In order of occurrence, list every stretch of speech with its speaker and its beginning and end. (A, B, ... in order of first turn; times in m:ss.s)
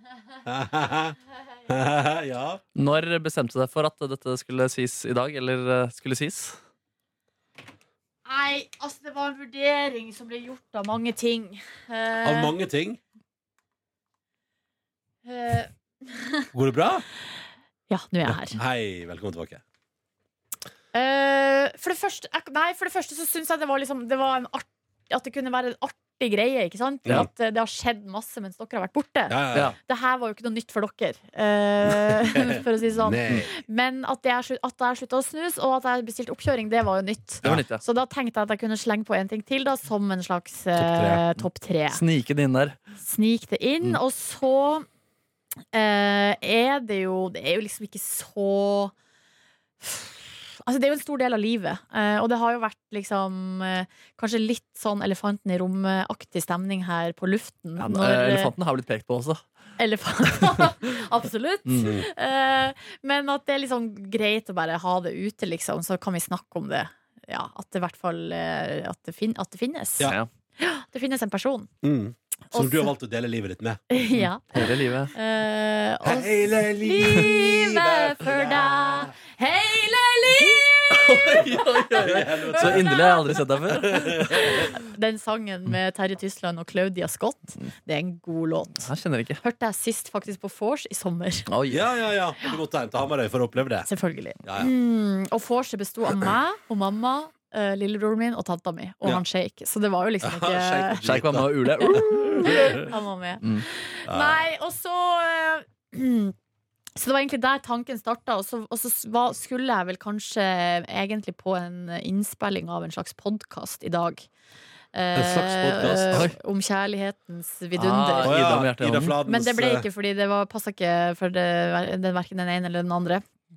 0:00.4-0:01.2 A
0:01.7-0:02.6 A
0:02.8-0:06.6 B
0:08.2-0:12.5 C
0:12.2-0:13.0 A
0:15.2-0:16.5 C
0:16.5-0:17.0 A
0:17.9-0:18.6 C
0:18.3-0:19.6 A
0:20.9-0:42.0 C
0:29.3-0:29.8 A
0:32.0-0:33.5 A
0:37.4-0:37.8 B
0:40.8-0:41.2 A
0:41.4-0:42.8 B
0:43.0-0:44.8 C
0:45.7-0:48.9 C
0:49.8-0:58.5 C
0:57.8-0:59.4 B
0:59.8-1:11.7 C
1:01.8-1:02.0 A
1:10.0-1:10.3 B
1:11.8-1:13.8 A
1:12.5-1:12.9 C
1:13.9-1:23.4 C
1:14.1-1:15.1 B
1:16.0-1:19.2 A
1:20.9-1:24.1 B
1:21.3-1:22.9 A
1:23.7-1:24.7 A
1:24.1-1:28.9 C
1:28.8-1:29.4 B
1:29.4-1:31.5 C
1:31.5-1:31.8 B
1:31.7-1:33.9 A
1:33.9-1:41.0 C
1:34.4-1:34.7 A
1:40.2-1:42.9 A
1:41.0-1:42.7 B
1:41.8-1:46.3 C
1:44.1-1:44.5 A
1:47.0-1:54.2 C
1:54.9-1:58.4 C
1:55.2-1:56.3 A
1:57.8-1:59.2 B
1:58.2-1:59.9 A
1:59.2-2:03.2 C